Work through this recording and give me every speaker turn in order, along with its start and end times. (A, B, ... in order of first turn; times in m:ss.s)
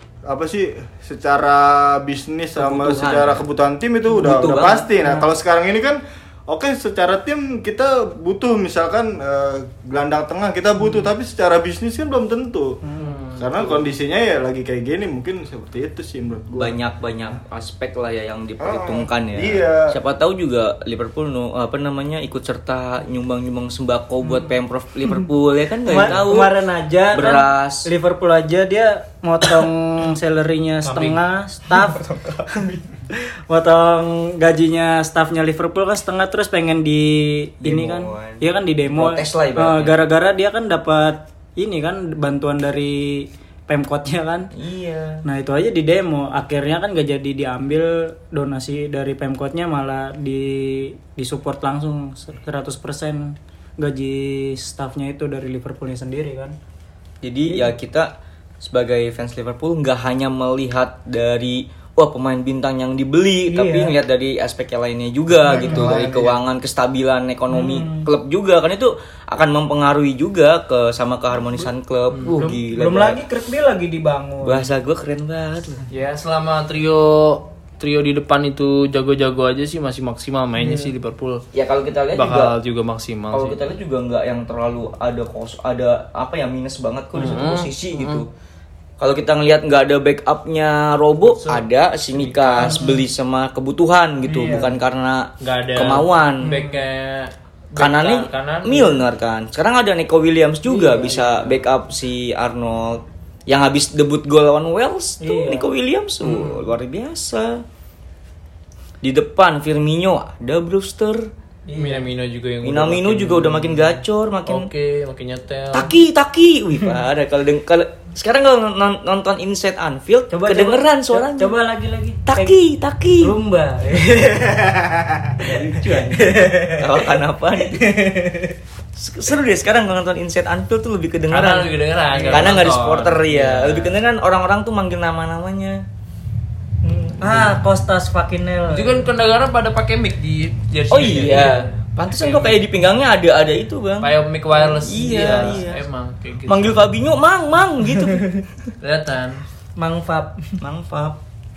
0:00.3-0:12.8 A
0:02.6-0:03.4 B
0:04.1-0:04.9 B
0:05.0-0:05.3 C
0:12.8-0:13.2 C
0:13.0-0:13.8 D
0:13.4-0:16.8 A
0:16.5-0:26.5 B
0:18.6-0:19.9 A
0:25.8-0:44.5 C
0:27.1-0:27.9 B
0:30.8-0:31.2 D
0:37.6-0:40.0 B
0:44.5-0:45.2 B
0:45.2-0:56.6 C
0:57.2-1:13.2 B
1:03.5-1:03.9 C
1:05.4-1:06.4 A
1:05.5-1:05.9 C
1:07.5-1:08.1 C
1:12.4-1:14.7 C
1:14.4-1:15.8 B
1:15.9-1:21.4 D
1:20.6-1:20.9 C
1:21.5-1:22.5 B
1:22.1-1:23.6 D
1:23.3-1:28.3 B
1:27.1-1:28.2 D
1:29.0-1:36.6 B
1:31.2-1:32.9 D
1:32.6-1:33.0 C
1:34.2-1:34.7 C
1:35.4-1:39.0 D
1:36.4-1:36.8 C
1:37.8-1:47.6 B
1:40.6-1:41.4 C
1:45.2-1:45.7 C
1:49.0-1:51.3 B
1:51.6-1:52.0 C
1:51.8-1:55.9 D
1:52.6-1:54.7 B
1:55.7-2:01.6 B
2:00.3-2:02.5 C
2:02.2-2:03.3 B
2:03.2-2:07.1 C
2:05.4-2:08.0 B
2:07.6-2:08.5 C
2:09.0-2:11.7 B
2:11.3-2:13.9 D
2:12.1-2:12.5 C
2:12.3-2:15.8 B
2:16.8-2:19.1 C
2:18.7-2:21.7 D
2:20.9-2:24.1 B
2:22.2-2:22.5 D
2:24.0-2:26.8 D
2:24.5-2:25.6 C
2:24.8-2:25.8 B
2:26.5-2:28.4 B
2:28.8-2:29.4 D
2:29.8-2:30.5 C
2:30.6-2:31.2 B